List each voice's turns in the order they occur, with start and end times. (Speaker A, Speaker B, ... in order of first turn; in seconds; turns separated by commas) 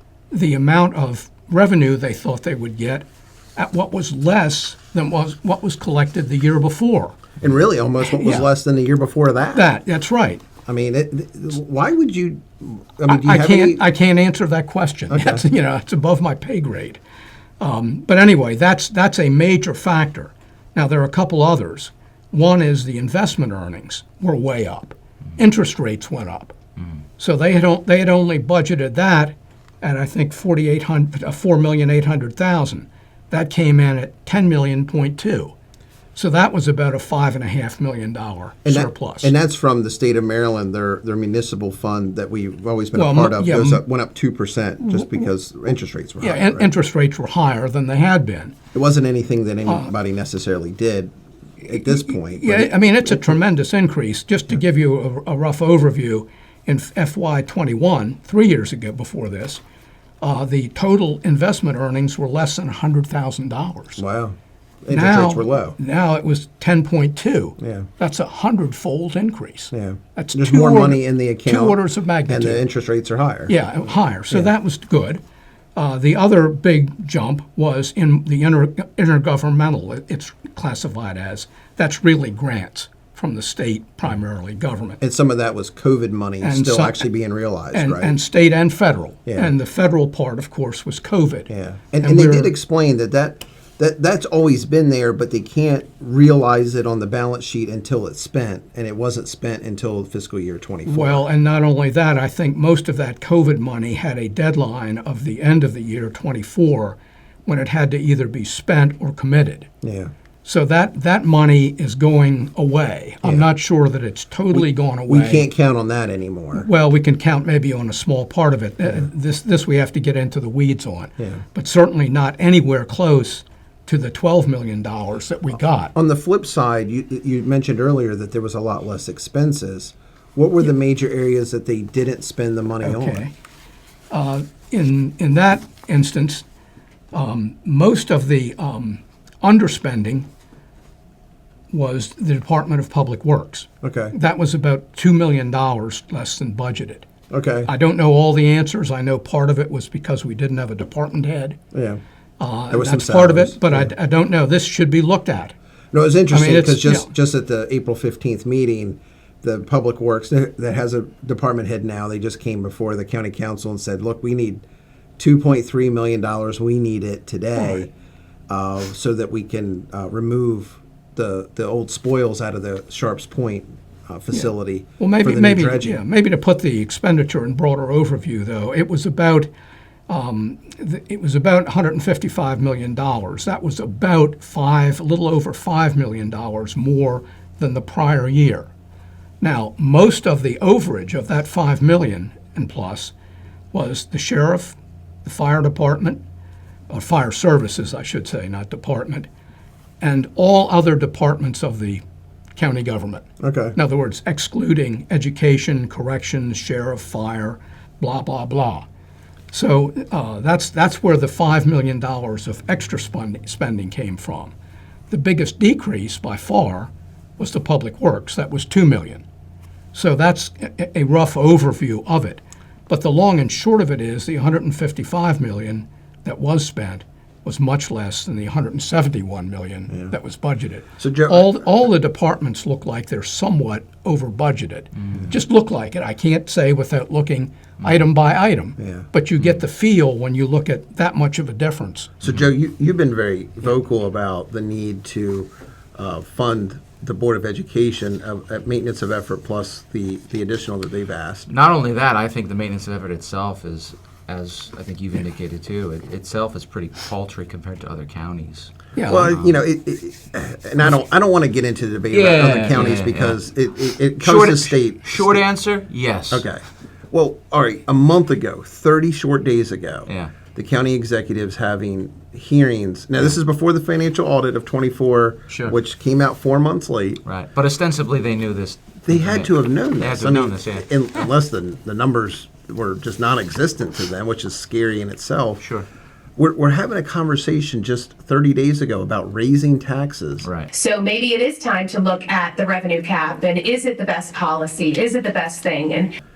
Speaker A: 0.3-7.2, Speaker B: 7.4-9.7, Speaker A: 8.0-8.5, Speaker A: 9.6-10.4, Speaker B: 10.7-13.8, Speaker A: 13.1-17.0, Speaker B: 15.1-15.4, Speaker A: 17.6-26.6, Speaker A: 27.2-35.5, Speaker A: 36.1-39.3, Speaker B: 38.6-46.7, Speaker A: 43.0-43.8, Speaker A: 46.2-48.6, Speaker B: 48.7-53.4, Speaker A: 49.7-49.9, Speaker A: 51.8-59.6, Speaker A: 60.2-64.0, Speaker B: 64.0-65.8, Speaker A: 64.9-72.6, Speaker B: 67.6-67.9, Speaker B: 69.7-73.5, Speaker A: 73.5-75.2, Speaker A: 75.8-85.0, Speaker B: 85.0-88.2, Speaker A: 86.4-87.1, Speaker A: 87.7-91.5, Speaker B: 89.3-89.5, Speaker B: 91.5-101.2, Speaker A: 92.0-92.5, Speaker A: 100.9-109.7, Speaker B: 109.8-110.1, Speaker A: 110.4-115.5, Speaker B: 114.5-116.7, Speaker A: 116.6-125.9, Speaker B: 126.0-133.2, Speaker A: 132.8-133.3, Speaker A: 134.1-136.4, Speaker A: 137.1-140.3, Speaker A: 141.7-147.1, Speaker B: 143.8-144.1, Speaker B: 147.3-147.7, Speaker A: 147.7-151.6, Speaker B: 151.7-152.0, Speaker A: 152.4-155.6, Speaker B: 152.7-153.9, Speaker B: 155.9-164.6, Speaker A: 156.3-157.1, Speaker B: 165.2-167.9, Speaker A: 167.6-167.8, Speaker B: 168.5-176.0, Speaker A: 174.3-179.5, Speaker A: 180.1-188.7, Speaker A: 189.4-193.1, Speaker A: 193.7-196.2, Speaker A: 196.9-199.3, Speaker A: 200.0-202.0, Speaker A: 202.6-208.9, Speaker B: 203.4-203.8, Speaker A: 209.5-214.5, Speaker A: 215.1-219.2, Speaker A: 219.9-242.1, Speaker B: 231.0-231.7, Speaker C: 235.0-235.3, Speaker B: 238.8-239.1, Speaker B: 242.2-251.5, Speaker C: 251.5-259.6, Speaker A: 259.0-259.4, Speaker B: 259.1-265.5, Speaker C: 262.1-263.4, Speaker C: 264.2-266.5, Speaker B: 266.3-277.2, Speaker C: 270.1-270.3, Speaker C: 275.5-275.8, Speaker C: 277.2-281.2, Speaker B: 279.1-285.6, Speaker C: 285.6-285.9, Speaker B: 286.4-290.5, Speaker C: 290.4-290.7, Speaker D: 290.7-296.1